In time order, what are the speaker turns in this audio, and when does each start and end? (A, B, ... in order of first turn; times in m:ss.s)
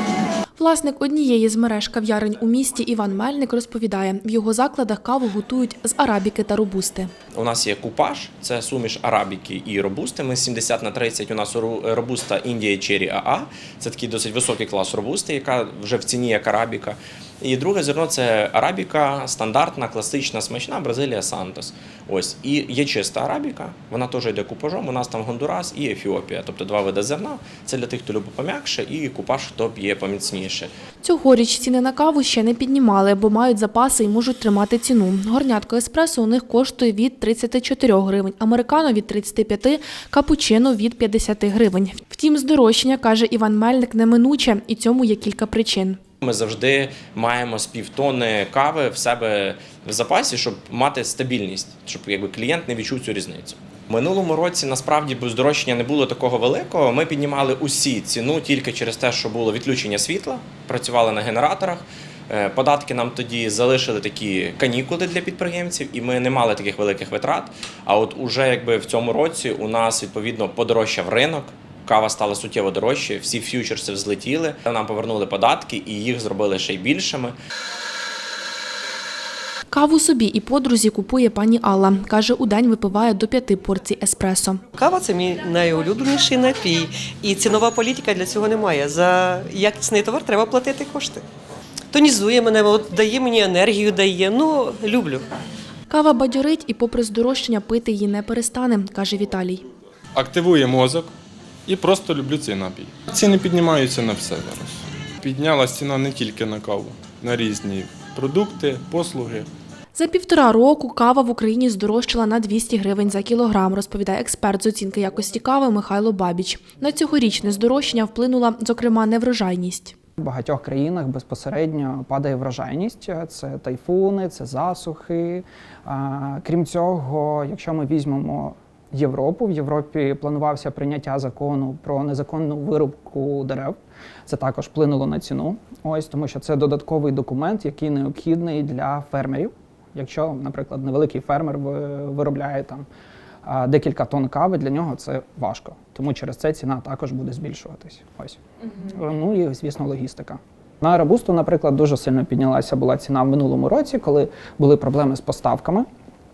0:00.6-0:07.1 A
0:07.3-0:30.7 B
0:31.0-0:46.0 A
0:46.2-1:17.4 B
1:19.7-1:24.6 A
1:24.7-1:31.2 C
1:31.9-1:35.2 C
1:35.9-1:39.6 A
1:40.1-1:41.1 D
1:41.6-1:49.5 D
1:49.9-1:59.9 A
2:00.2-2:13.8 E
2:14.3-2:22.8 E
2:23.4-2:35.9 E